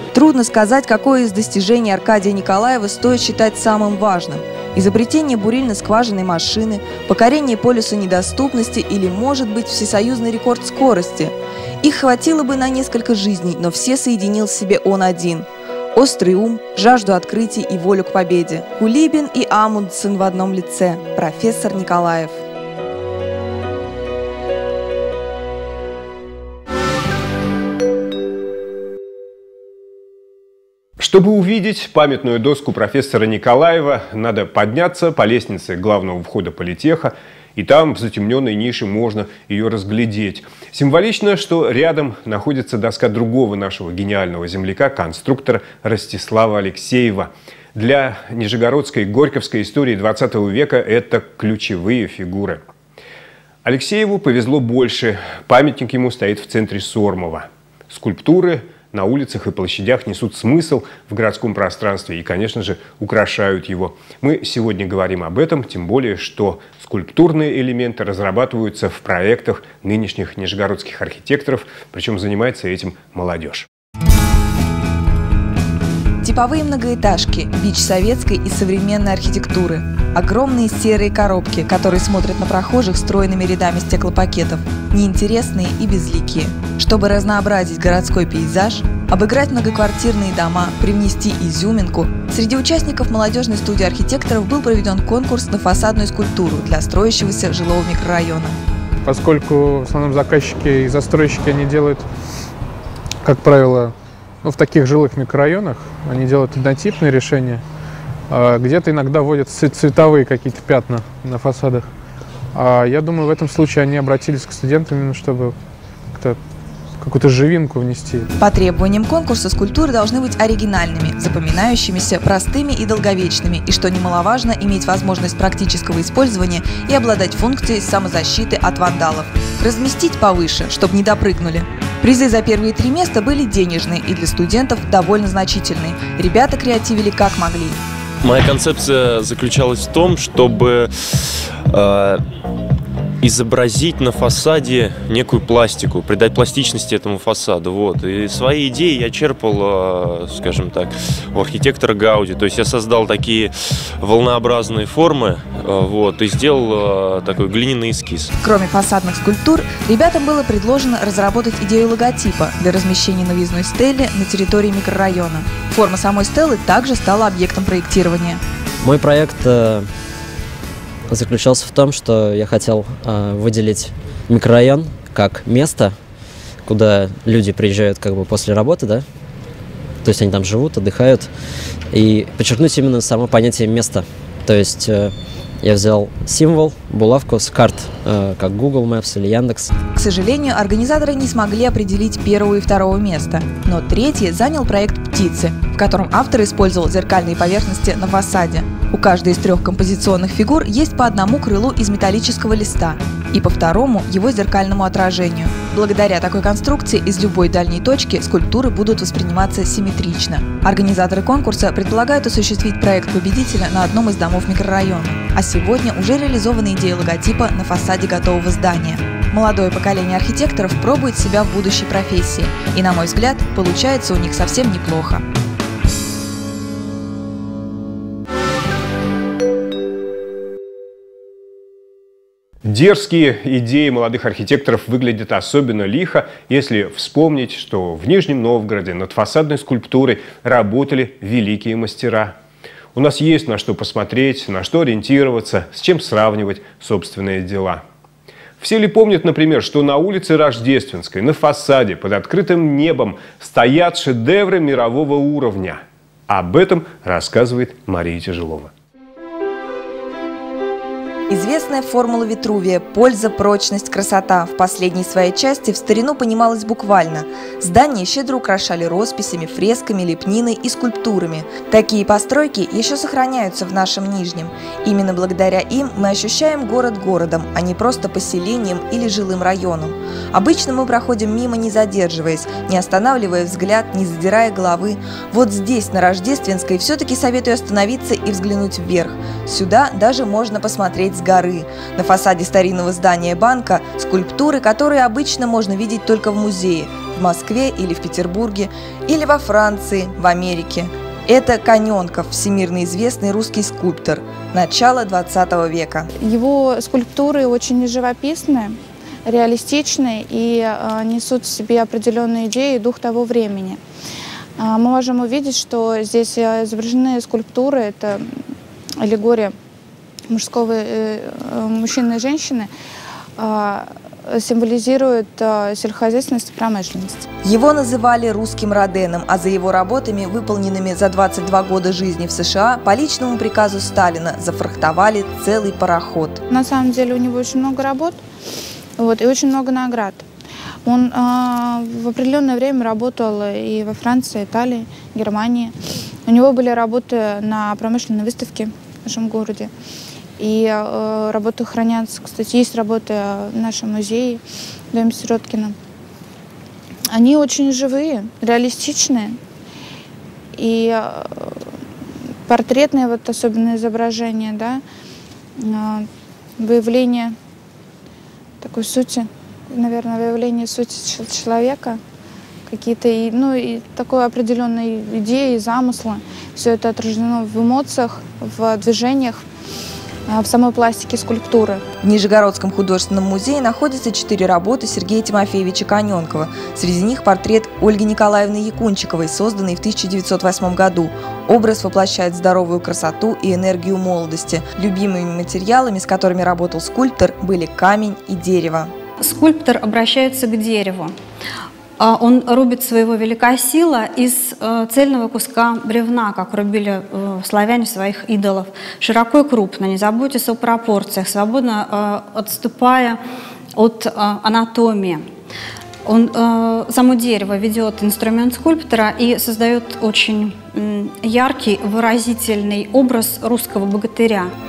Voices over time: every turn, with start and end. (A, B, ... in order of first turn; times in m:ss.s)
0:00.1-0:22.4 A
0:31.0-0:52.6 B
0:53.6-1:13.7 B
1:16.2-1:38.6 A
1:39.0-1:42.1 C
1:43.2-1:47.6 C
1:48.3-1:51.9 C
1:52.5-1:55.6 C
1:56.1-1:56.4 C
1:57.0-1:58.3 C
1:58.4-2:17.8 A
2:18.2-2:22.2 D
2:23.2-2:38.3 D
2:38.4-2:48.4 A
2:48.8-2:49.9 E
2:51.1-2:55.9 E
2:56.6-2:59.0 E
3:00.0-3:01.3 E
3:01.9-3:09.7 E
3:10.0-3:45.2 A
3:52.6-4:02.3 B
4:02.9-4:07.8 B
4:08.6-4:18.7 B
4:21.3-5:06.1 A
5:06.2-5:13.8 F
5:14.6-5:18.4 F
5:19.0-5:19.6 F
5:20.3-5:22.7 F
5:23.4-5:27.2 F
5:27.4-5:36.4 A
5:36.5-5:38.2 F
5:39.0-5:40.3 F
5:40.8-5:45.7 F
5:46.3-5:49.7 F
5:50.4-5:54.4 F
5:54.9-5:55.8 F
5:57.1-5:59.4 F
6:00.6-6:01.6 F
6:02.5-6:04.8 F
6:05.6-6:07.4 F
6:08.6-6:12.0 F
6:12.7-6:19.4 F
6:20.3-6:21.8 F
6:22.0-6:38.9 A
6:39.2-6:41.2 G
6:42.0-6:53.2 G
6:53.8-6:55.3 G
6:56.0-7:04.5 G